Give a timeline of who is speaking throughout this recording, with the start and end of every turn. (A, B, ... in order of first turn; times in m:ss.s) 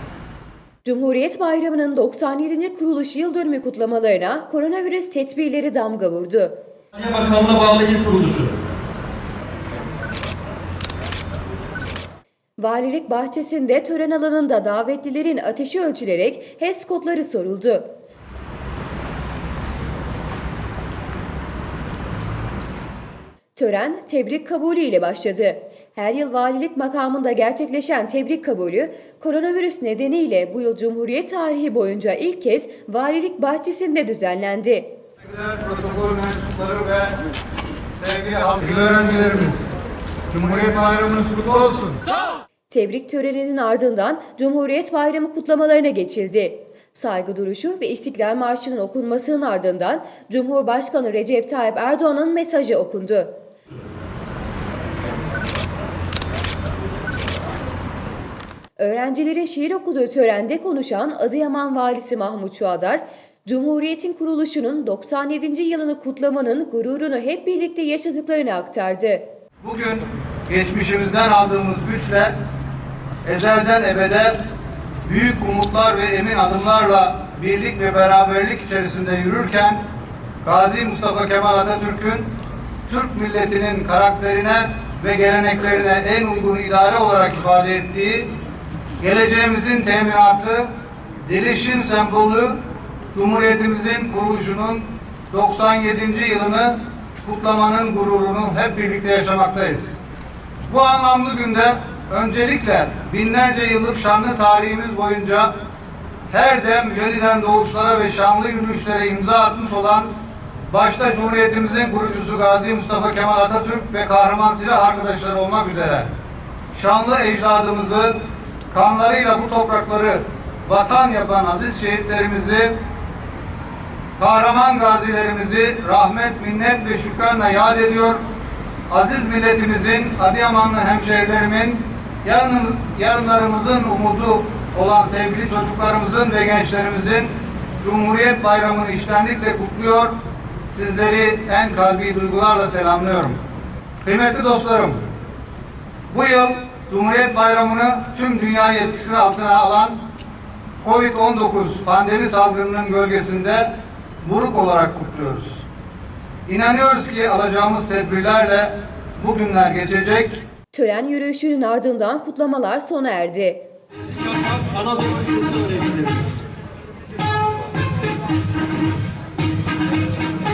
0:00.8-0:06.5 A
0:06.9-0:08.6 B
0:12.6-0:17.9 A
0:23.6-0:34.9 A
0:35.2-0:37.2 C
0:38.0-0:39.7 C
0:40.3-0:42.0 C
0:42.7-0:53.3 A
0:58.8-1:09.2 A
1:09.6-1:12.4 C
1:13.2-1:14.4 C
1:15.0-1:19.9 C
1:20.4-1:22.3 C
1:22.9-1:28.3 C
1:29.0-1:30.7 C
1:31.2-1:32.6 C
1:33.1-1:40.0 C
1:40.6-1:45.5 C
1:46.3-1:56.1 C
1:56.7-2:02.8 C
2:04.2-2:08.2 C
2:08.9-2:20.2 C
2:20.7-2:23.4 C
2:24.0-2:25.0 C
2:26.1-2:30.0 C
2:30.8-2:35.6 C
2:36.5-2:40.4 C
2:40.7-2:43.6 A
2:44.1-2:46.4 B